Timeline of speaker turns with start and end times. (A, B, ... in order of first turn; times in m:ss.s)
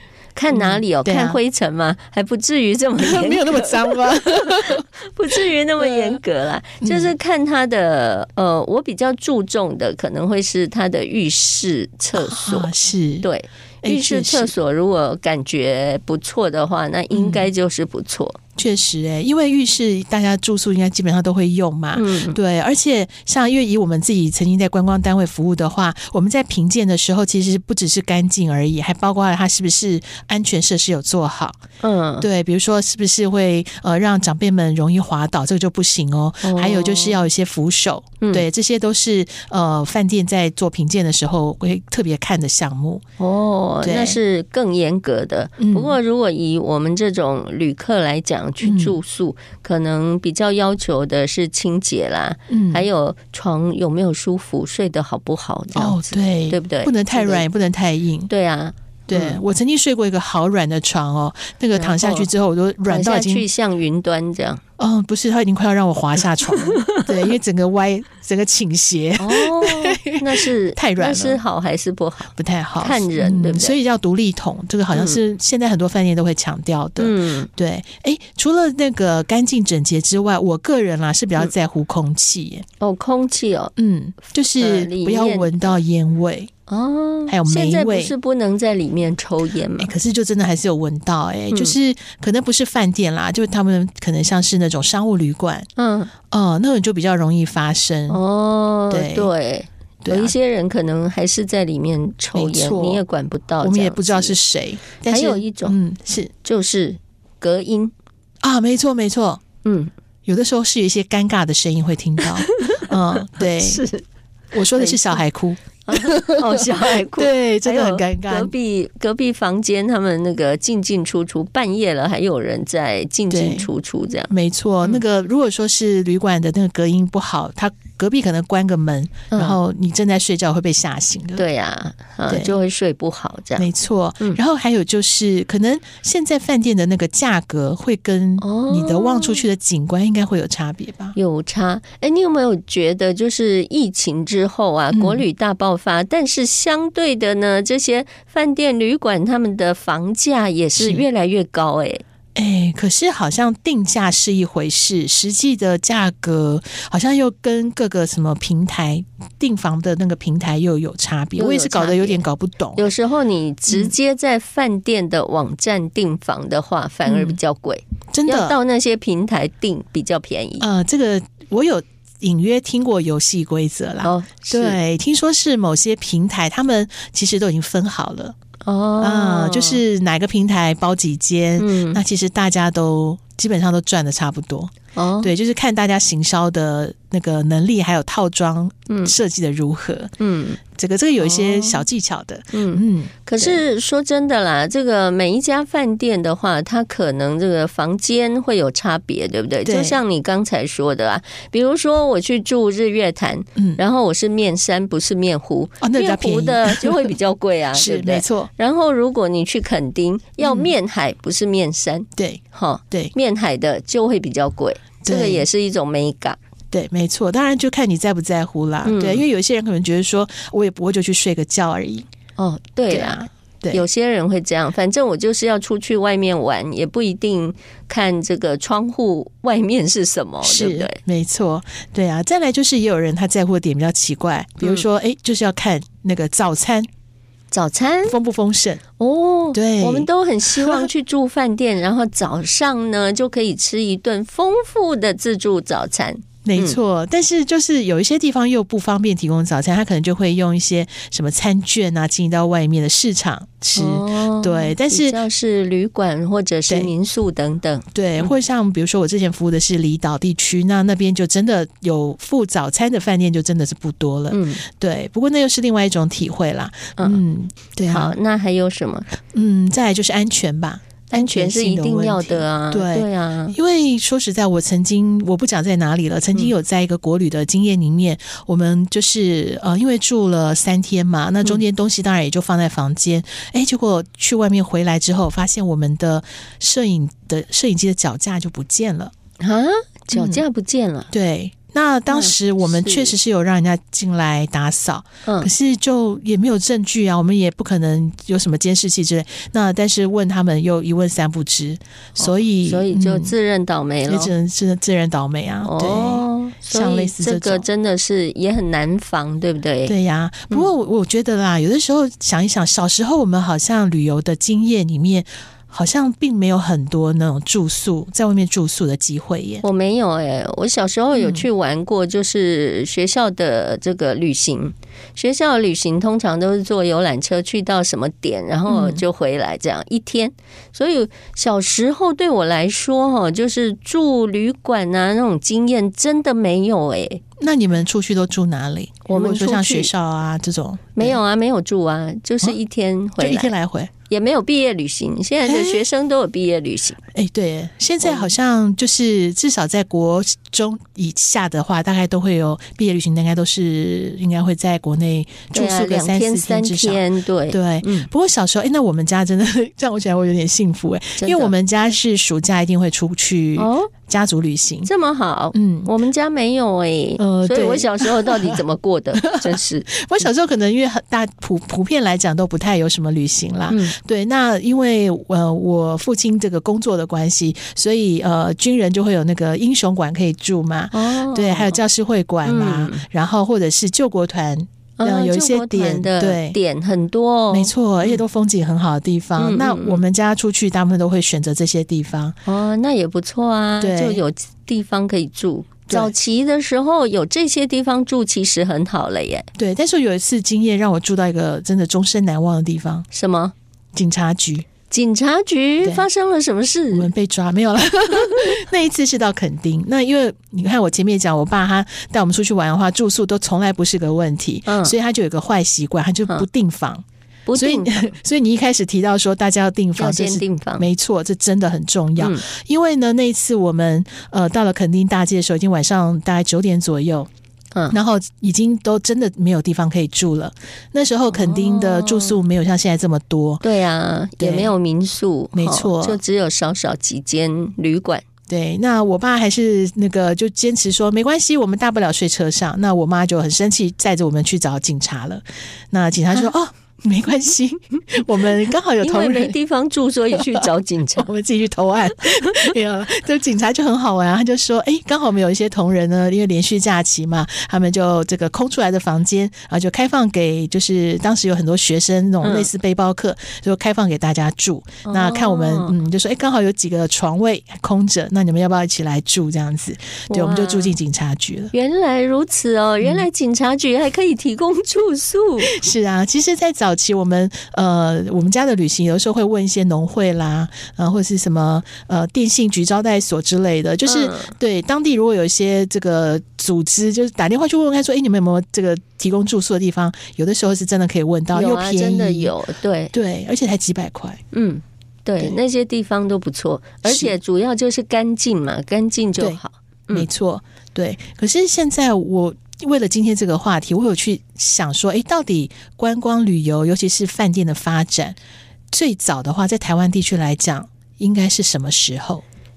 0:00.3-0:18.4 A
0:00.5-0:01.4 B
0:03.0-0:06.2 B
0:06.8-0:07.1 B
0:12.1-0:13.3 B
0:13.8-0:14.5 B
0:17.1-0:17.5 B
0:18.6-0:31.6 B
0:21.9-0:22.4 A
0:31.8-0:32.3 A
0:32.2-0:43.0 B
0:36.4-0:37.2 A
0:43.2-0:57.4 A
0:43.8-0:44.2 B
0:45.6-0:46.0 B
0:48.6-0:49.0 B
0:52.5-0:52.8 B
0:55.7-0:58.3 B
0:58.3-0:59.4 A
0:59.1-1:03.5 B
1:01.8-1:02.3 A
1:02.8-1:04.6 A
1:04.8-1:11.4 B
1:06.6-1:07.3 A
1:09.2-1:13.8 A
1:12.4-1:22.6 B
1:14.9-1:15.2 A
1:17.0-1:17.5 A
1:22.8-1:23.7 A
1:23.8-1:26.5 B
1:24.6-1:25.8 A
1:26.7-1:29.9 A
1:27.3-1:28.1 B
1:29.8-1:35.7 B
1:31.5-1:31.8 A
1:35.8-1:36.1 A
1:36.3-1:38.2 B
1:38.1-1:44.4 A
1:38.9-1:39.3 B
1:40.0-1:40.3 B
1:42.3-1:43.0 B
1:43.6-1:46.3 B
1:45.1-1:45.8 A
1:46.4-1:47.9 A
1:48.4-1:49.4 B
1:49.6-1:49.9 A
1:50.2-1:53.8 B
1:52.2-1:54.0 A
1:54.5-1:58.5 B
1:54.7-1:55.2 A
1:55.8-2:04.3 A
2:03.3-2:03.7 B
2:04.3-2:11.4 B
2:09.3-2:09.6 A
2:11.4-2:13.7 A
2:12.3-2:12.6 B
2:13.6-2:21.2 B
2:18.4-2:19.4 A
2:21.1-2:32.0 A
2:24.9-2:25.2 B
2:30.8-2:31.0 B
2:32.4-2:42.9 B
2:41.4-2:50.7 A
2:43.7-2:43.9 B
2:47.0-2:47.4 B
2:48.1-2:48.6 B
2:50.6-2:58.3 B
2:54.0-2:54.8 A
2:58.6-2:59.8 A
2:59.0-3:10.1 B
3:01.6-3:02.0 A
3:04.9-3:05.3 A
3:08.9-3:09.2 A
3:10.2-3:10.6 A
3:10.8-3:13.6 B
3:11.2-3:11.8 A
3:12.5-3:36.4 A
3:19.6-3:20.0 B
3:23.6-3:23.8 B
3:25.8-3:27.1 B
3:27.7-3:28.5 B
3:30.4-3:30.7 B
3:32.2-3:33.1 B
3:35.0-3:35.5 B
3:36.7-3:42.1 B
3:38.8-3:39.2 A
3:42.4-3:51.0 A
3:42.9-3:43.8 B
3:50.4-3:56.9 B
3:57.5-3:58.2 A
3:58.0-3:58.8 B
3:59.0-4:06.8 A
3:59.5-4:00.9 B
4:06.4-4:15.2 B
4:13.8-4:18.3 A
4:16.7-4:16.9 B
4:17.9-4:28.2 B
4:24.3-4:24.6 A
4:27.9-4:29.1 A
4:29.3-4:49.1 B
4:31.1-4:33.6 A
4:49.4-4:51.1 A
4:50.1-4:50.4 B
4:51.1-5:03.3 B
4:52.1-4:53.1 A
4:55.2-4:55.5 A
5:02.2-5:04.3 A
5:04.1-5:07.7 B
5:05.6-5:09.9 A
5:09.8-5:19.6 B
5:19.6-5:37.2 A
5:21.1-5:21.5 B
5:28.7-5:29.0 B
5:37.4-5:41.2 B
5:39.1-5:39.9 A
5:41.0-5:43.5 A
5:43.2-5:43.9 B
5:44.1-5:47.0 A
5:45.4-5:45.8 B
5:47.1-6:04.9 B
5:48.0-5:48.3 A
5:55.5-5:58.1 A
6:01.2-6:01.5 A
6:03.6-6:03.9 A
6:04.8-6:10.3 A
6:05.5-6:05.9 B
6:07.2-6:08.6 B
6:09.1-6:26.6 B
6:13.7-6:14.0 A
6:20.9-6:21.8 A
6:22.4-6:23.0 A
6:25.0-6:28.2 A
6:27.5-6:32.4 B
6:29.4-6:30.0 A
6:32.4-6:39.5 A
6:33.8-6:34.2 B
6:35.9-6:36.1 B
6:39.6-6:43.1 B
6:43.1-6:43.5 A
6:43.9-6:44.6 B
6:44.9-6:47.1 A
6:45.8-6:46.1 B
6:46.9-7:07.3 B
6:54.7-6:54.9 A
6:57.4-6:58.1 A
7:00.0-7:00.9 A
7:02.2-7:02.4 A
7:07.9-7:13.6 B
7:11.3-7:12.4 A
7:13.6-7:18.2 A
7:14.4-7:14.7 B
7:15.5-7:16.2 B
7:18.5-7:29.6 B
7:29.0-7:31.3 A
7:30.3-7:51.7 B
7:42.4-7:42.7 A
7:45.0-7:46.0 A
7:50.3-7:50.9 A
7:51.7-7:55.7 A
7:53.0-7:53.3 B
7:55.6-8:12.5 B
8:04.0-8:04.5 A
8:11.5-8:13.1 A
8:13.1-8:14.4 B
8:14.5-8:20.3 A
8:17.0-8:17.4 B
8:19.4-8:28.4 B
8:28.9-8:32.4 B